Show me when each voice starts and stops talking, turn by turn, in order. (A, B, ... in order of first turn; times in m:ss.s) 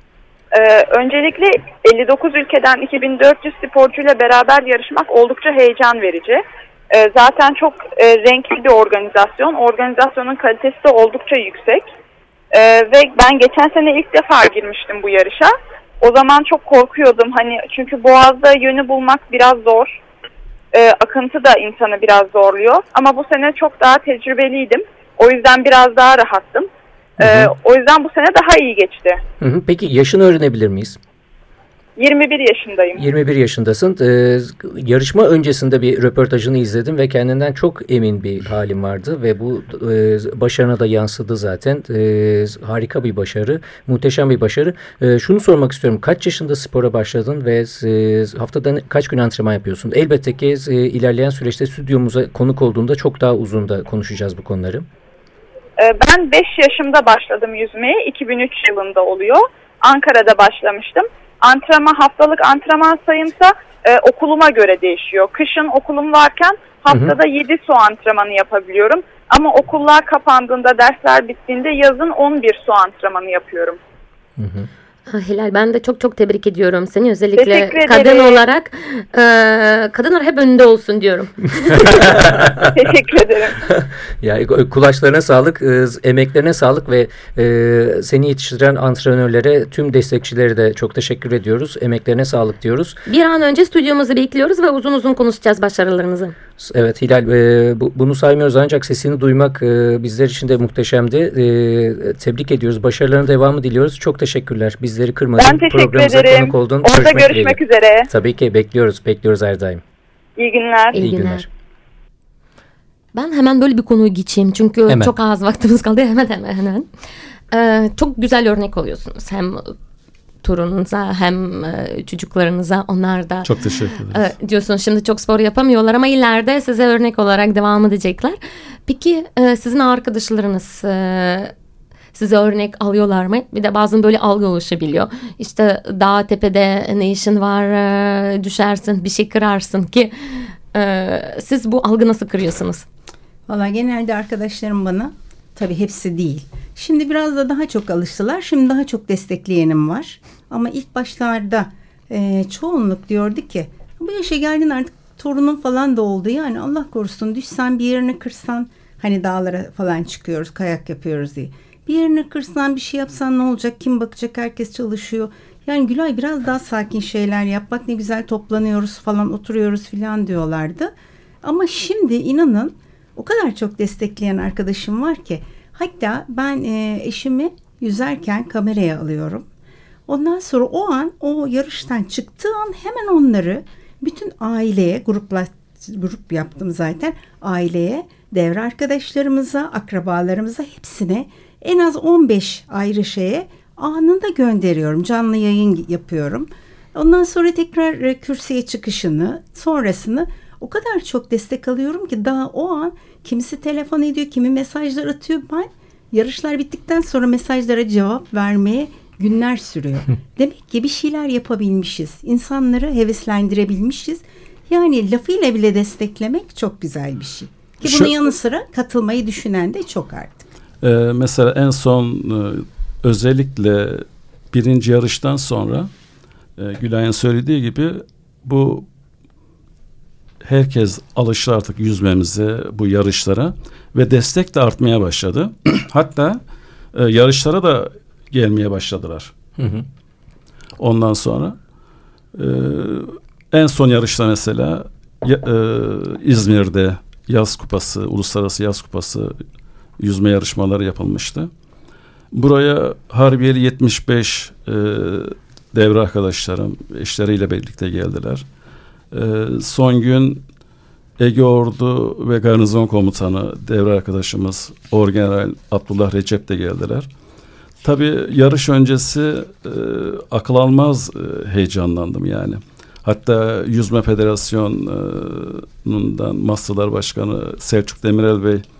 0:00.5-0:06.4 A
0:06.9-0:11.8 A
0:12.5-0:15.5 A
0:16.0-0:19.9 A
0:20.7-0:26.7 A
0:27.2-0:27.5 B
0:27.2-0:29.2 A
0:29.4-0:31.0 B
0:32.0-0:33.0 A
0:33.0-0:54.9 B
0:55.8-1:13.8 A
1:06.9-1:07.2 B
1:14.4-1:14.7 B
1:15.1-1:22.0 C
1:17.4-1:18.4 A
1:21.8-1:22.7 B
1:22.8-1:23.6 A
1:23.6-1:33.0 B
1:33.1-1:36.4 C
1:36.6-1:49.8 B
1:45.4-1:48.0 A
1:50.4-1:51.0 A
1:50.9-1:51.5 C
1:51.0-1:51.5 B
1:53.1-1:56.9 C
1:54.9-1:55.1 B
1:57.5-1:59.8 C
2:00.4-2:11.5 C
2:03.4-2:04.2 D
2:12.1-2:22.9 C
2:23.5-2:50.9 E
2:51.4-2:59.5 E
3:00.1-3:40.5 E
3:37.8-3:38.1 D
3:40.8-3:45.9 D
3:46.6-3:48.9 D
3:50.4-3:56.4 D
3:56.9-3:59.3 D
3:59.6-3:59.9 B
4:00.8-4:01.6 D
4:02.4-4:09.4 D
4:10.0-4:11.5 D
4:12.3-4:18.4 D
4:19.1-4:20.4 D
4:21.2-4:27.1 D
4:27.8-4:38.6 D